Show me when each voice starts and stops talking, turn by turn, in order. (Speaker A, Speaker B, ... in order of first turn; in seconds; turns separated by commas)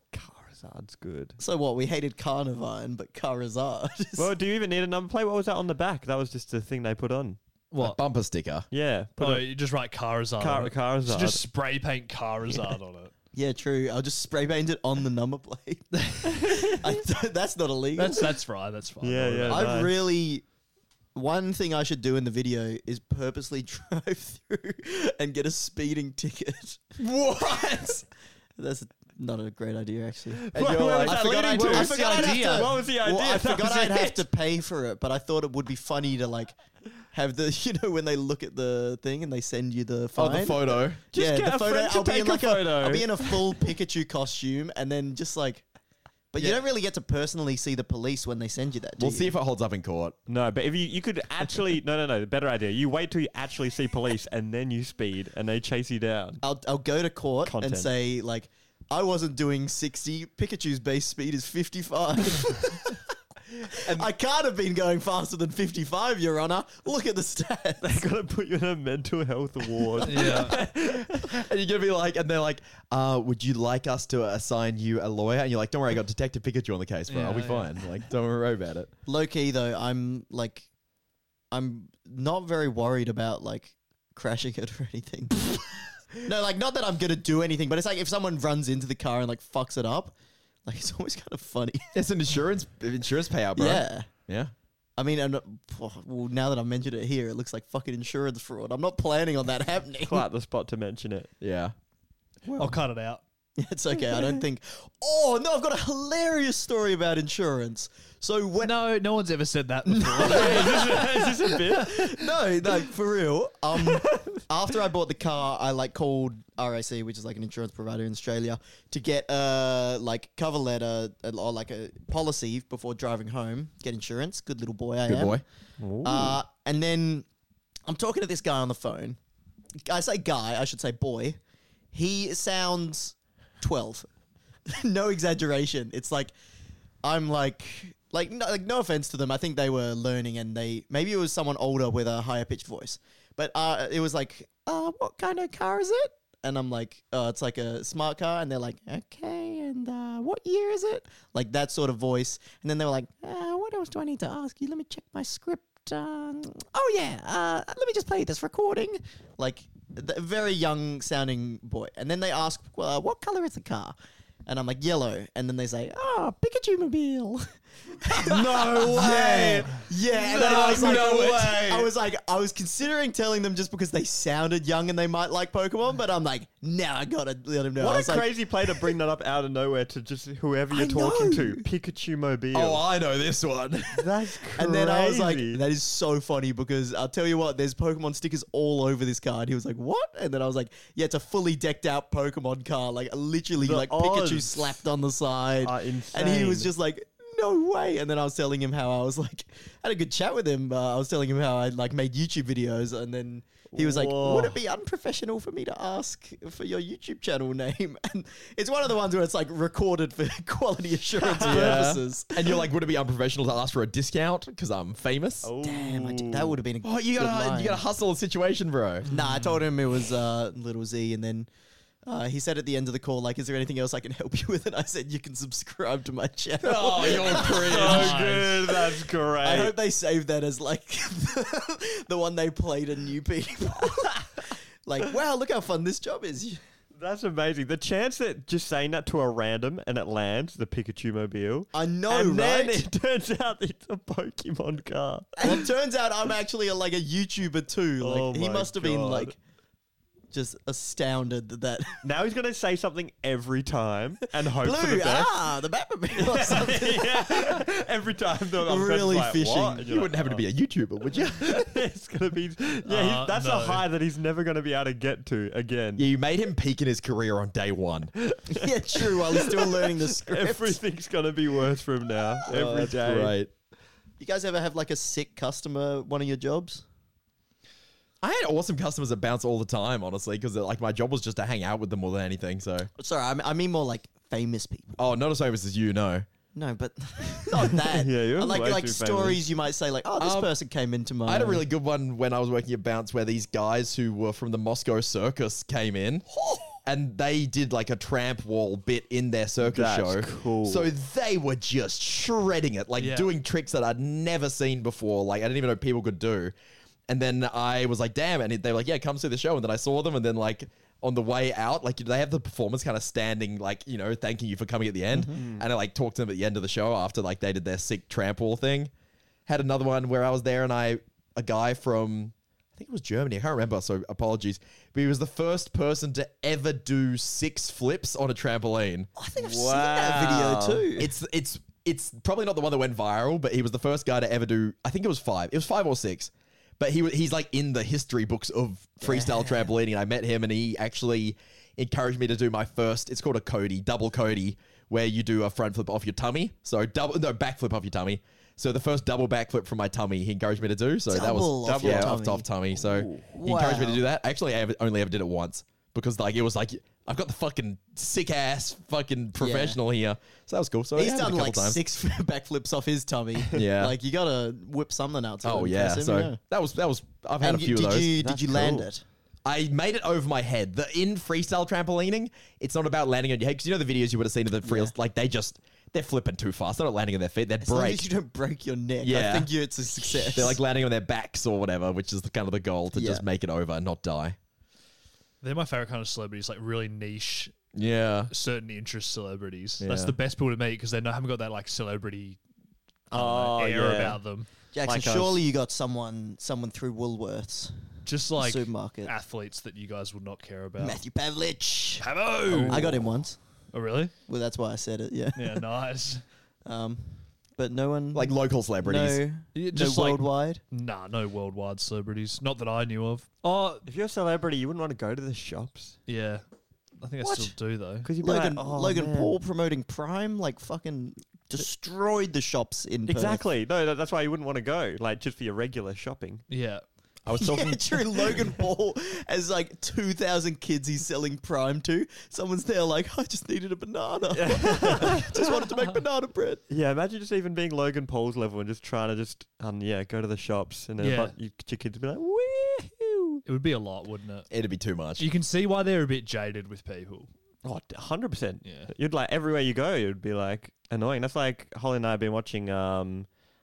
Speaker A: 0.1-1.4, Speaker B: 1.4-4.3, Speaker A: 4.2-7.4, Speaker C: 7.7-8.0, Speaker D: 7.8-8.7, Speaker A: 8.7-9.5, Speaker C: 9.2-13.1, Speaker A: 10.4-11.4, Speaker B: 13.3-18.4, Speaker C: 16.0-16.3, Speaker C: 18.0-19.8, Speaker A: 19.0-19.9, Speaker B: 19.5-20.4, Speaker B: 21.1-26.8, Speaker D: 27.0-28.0, Speaker B: 28.6-36.6, Speaker A: 30.4-34.2, Speaker D: 30.5-32.1, Speaker C: 31.7-32.7, Speaker B: 37.1-45.7, Speaker D: 40.1-41.0, Speaker A: 41.1-43.5, Speaker B: 46.3-49.3, Speaker D: 49.0-50.2, Speaker A: 50.3-56.4, Speaker B: 56.4-63.0, Speaker A: 57.4-57.9, Speaker B: 63.6-68.0, Speaker D: 63.8-64.1, Speaker A: 67.8-71.3, Speaker C: 70.0-70.6, Speaker D: 70.8-78.9, Speaker C: 77.1-77.7, Speaker B: 79.0-80.7, Speaker B: 81.5-90.1, Speaker B: 90.7-91.9, Speaker D: 91.9-94.5, Speaker B: 93.5-94.1, Speaker B: 95.0-100.2, Speaker A: 100.0-101.3, Speaker D: 101.4-101.7, Speaker B: 102.4-102.8, Speaker C: 102.5-103.2, Speaker B: 103.6-108.7, Speaker C: 108.6-111.1, Speaker B: 109.8-125.4, Speaker A: 110.2-112.4, Speaker A: 113.8-114.4, Speaker D: 125.0-125.4, Speaker A: 125.8-126.4, Speaker B: 126.0-127.2, Speaker B: 127.9-129.2, Speaker B: 129.8-131.4, Speaker B: 131.9-134.1, Speaker B: 134.7-136.3, Speaker B: 137.0-163.9, Speaker B: 164.4-167.4, Speaker B: 168.0-178.9, Speaker D: 168.1-171.9, Speaker A: 170.3-171.0, Speaker A: 177.8-182.8, Speaker B: 180.7-181.6, Speaker D: 182.5-184.1, Speaker A: 183.9-185.6, Speaker B: 184.6-212.6, Speaker A: 193.6-194.8, Speaker A: 195.6-196.7, Speaker A: 203.7-204.6, Speaker A: 211.2-211.9, Speaker D: 211.4-215.5, Speaker A: 215.4-216.6, Speaker B: 215.6-217.8, Speaker D: 216.8-219.1, Speaker B: 219.1-221.5, Speaker C: 219.1-219.6, Speaker B: 222.1-236.6, Speaker D: 226.6-228.2, Speaker A: 227.1-229.7, Speaker C: 227.8-228.6, Speaker A: 237.0-245.7, Speaker B: 241.7-242.8, Speaker B: 245.4-249.3, Speaker A: 248.0-249.3, Speaker B: 250.3-252.0, Speaker A: 252.0-255.3, Speaker B: 254.5-257.6, Speaker A: 256.2-260.4, Speaker B: 258.6-259.9, Speaker D: 259.9-261.6, Speaker A: 261.4-266.1, Speaker C: 262.8-263.8, Speaker D: 266.0-268.1, Speaker B: 268.5-270.8, Speaker A: 268.9-273.4, Speaker D: 272.5-273.5, Speaker B: 274.2-276.8, Speaker D: 278.2-282.9, Speaker B: 283.0-284.9, Speaker D: 285.0-286.2, Speaker B: 286.5-291.6, Speaker A: 287.9-289.4, Speaker D: 290.2-290.5, Speaker D: 291.2-296.3, Speaker D: 296.8-306.5, Speaker A: 299.6-300.9, Speaker C: 303.0-303.3, Speaker D: 307.1-318.9, Speaker B: 315.1-315.4, Speaker A: 315.3-315.6, Speaker D: 319.5-329.1, Speaker B: 329.2-331.1, Speaker A: 329.4-330.8, Speaker D: 330.9-361.8, Speaker B: 339.0-339.7, Speaker B: 351.1-352.5, Speaker A: 351.6-352.2, Speaker A: 352.8-353.3, Speaker B: 353.3-354.0, Speaker B: 359.4-359.8, Speaker B: 360.9-366.4, Speaker D: 363.5-363.9, Speaker D: 365.4-368.1, Speaker B: 367.4-369.0, Speaker A: 368.2-368.9, Speaker D: 369.4-378.0, Speaker B: 374.6-374.9, Speaker B: 377.6-380.6, Speaker D: 379.0-384.4, Speaker B: 382.9-383.2, Speaker C: 385.4-387.5, Speaker D: 387.7-388.3, Speaker C: 388.3-392.4, Speaker D: 389.8-390.1, Speaker A: 389.8-390.1, Speaker C: 393.1-394.5, Speaker A: 393.1-394.2, Speaker B: 394.7-397.7, Speaker A: 394.8-395.4, Speaker C: 398.1-401.0, Speaker B: 398.3-399.1, Speaker B: 400.8-402.1, Speaker C: 402.0-403.0, Speaker D: 402.5-403.0, Speaker B: 402.7-403.4, Speaker C: 403.7-404.1, Speaker B: 404.3-405.7, Speaker C: 405.4-406.2, Speaker B: 406.6-410.6, Speaker D: 408.1-409.2, Speaker C: 409.5-413.8, Speaker A: 413.9-416.0, Speaker C: 416.1-416.4, Speaker C: 417.0-418.1, Speaker B: 417.2-417.5, Speaker A: 418.0-419.4, Speaker B: 418.2-423.4, Speaker A: 423.1-426.4, Speaker C: 426.5-426.8, Speaker D: 427.2-428.0, Speaker B: 427.3-436.6, Speaker A: 434.3-435.4, Speaker A: 436.7-443.4, Speaker C: 441.0-441.3, Speaker C: 443.4-444.5, Speaker D: 444.5-445.3, Speaker C: 445.2-447.3, Speaker A: 447.6-453.3, Speaker C: 448.6-448.9